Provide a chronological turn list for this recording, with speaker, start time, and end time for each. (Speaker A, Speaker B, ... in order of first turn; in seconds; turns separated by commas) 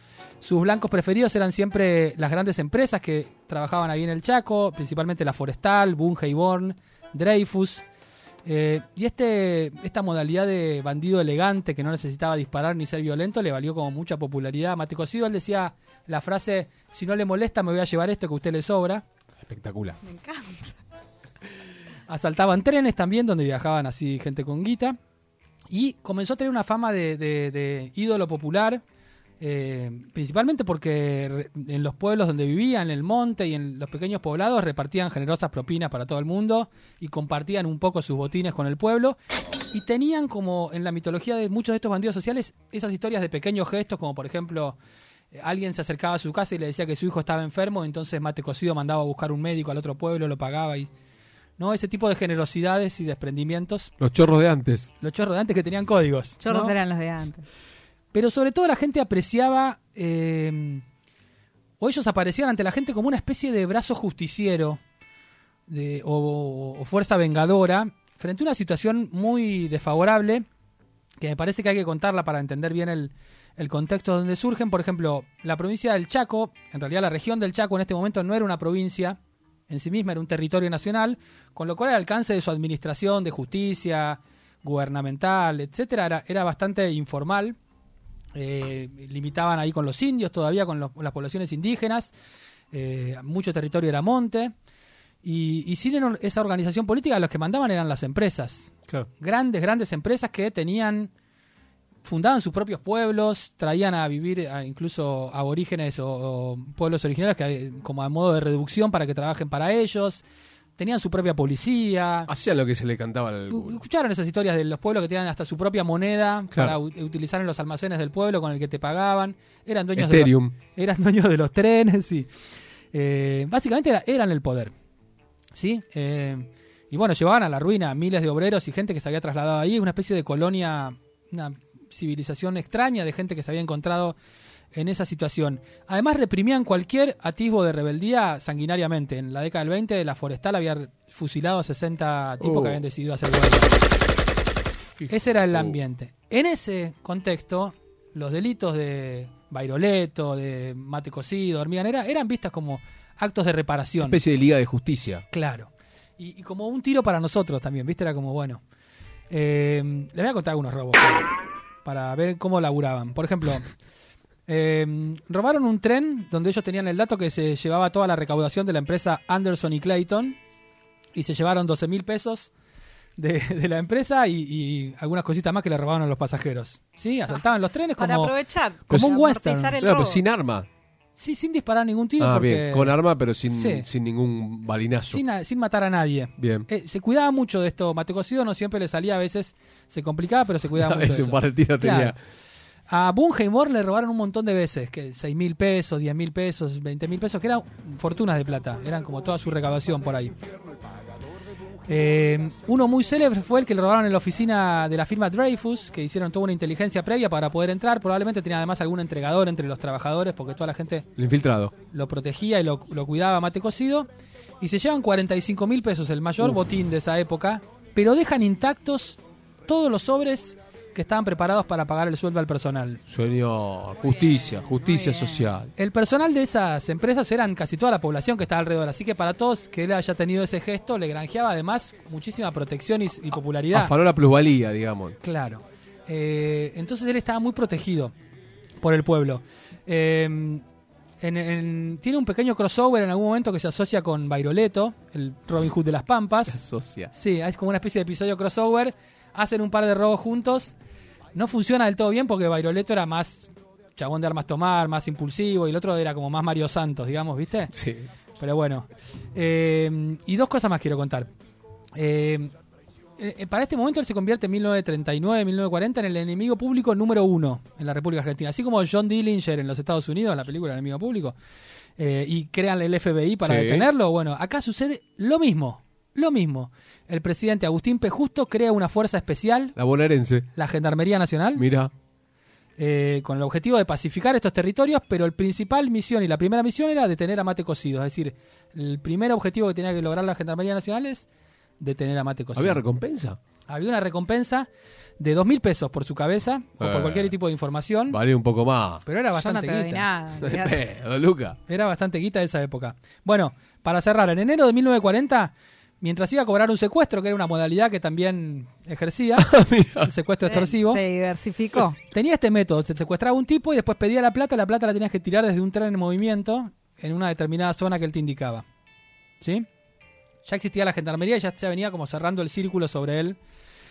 Speaker A: 0.4-7.9, Speaker A: 8.4-19.1, Speaker B: 19.4-20.0, Speaker C: 20.0-20.8, Speaker A: 22.1-25.0, Speaker A: 25.7-28.8, Speaker A: 29.4-39.2, Speaker A: 39.7-44.8, Speaker A: 45.3-50.9, Speaker A: 51.6-53.9, Speaker B: 54.0-54.9, Speaker A: 55.0-56.8, Speaker C: 56.4-57.5, Speaker A: 58.1-60.9, Speaker A: 61.8-64.8, Speaker A: 65.7-70.5, Speaker A: 71.2-87.6, Speaker A: 88.3-92.1, Speaker A: 92.7-94.5, Speaker A: 95.2-101.1, Speaker A: 102.0-110.2, Speaker A: 110.8-112.3, Speaker B: 112.3-113.8, Speaker A: 113.5-122.3, Speaker B: 120.0-120.5, Speaker A: 122.9-124.7, Speaker A: 125.5-134.2, Speaker A: 134.7-143.8, Speaker B: 142.4-142.8, Speaker B: 145.0-145.8, Speaker A: 145.1-154.2, Speaker B: 154.0-155.2, Speaker A: 155.3-158.6, Speaker A: 159.3-161.3, Speaker A: 161.8-163.7, Speaker A: 164.5-170.4, Speaker A: 171.1-172.5, Speaker A: 173.2-178.3, Speaker C: 178.0-180.2, Speaker A: 178.9-179.8, Speaker B: 179.8-180.7, Speaker A: 181.2-183.0, Speaker B: 182.2-185.2, Speaker A: 183.5-183.9, Speaker A: 185.1-192.2, Speaker B: 186.4-186.7, Speaker B: 190.8-192.2, Speaker A: 192.9-200.3, Speaker A: 201.8-211.1, Speaker B: 211.2-211.7, Speaker A: 211.9-214.1, Speaker A: 214.6-223.0, Speaker B: 223.1-225.7, Speaker C: 224.6-225.5, Speaker A: 225.8-233.9, Speaker B: 233.7-235.2, Speaker A: 235.2-238.1, Speaker A: 238.8-240.6, Speaker A: 241.2-246.6, Speaker B: 246.5-247.1, Speaker A: 247.1-250.8, Speaker A: 251.3-257.7, Speaker B: 257.7-258.1, Speaker A: 258.4-261.3, Speaker A: 262.0-262.5, Speaker A: 263.2-271.4, Speaker A: 272.0-279.7, Speaker B: 273.4-273.9, Speaker B: 279.8-280.5, Speaker A: 280.6-281.6, Speaker B: 281.6-281.9, Speaker A: 282.8-291.3, Speaker A: 291.8-292.8, Speaker B: 292.6-293.4, Speaker A: 293.7-298.2, Speaker B: 296.8-297.4, Speaker B: 298.1-299.0, Speaker A: 299.0-300.1, Speaker C: 299.4-300.9, Speaker B: 300.4-301.6, Speaker A: 301.7-311.0, Speaker B: 309.4-310.1, Speaker C: 310.5-312.0, Speaker A: 312.0-318.6, Speaker A: 319.4-319.7, Speaker A: 320.4-323.4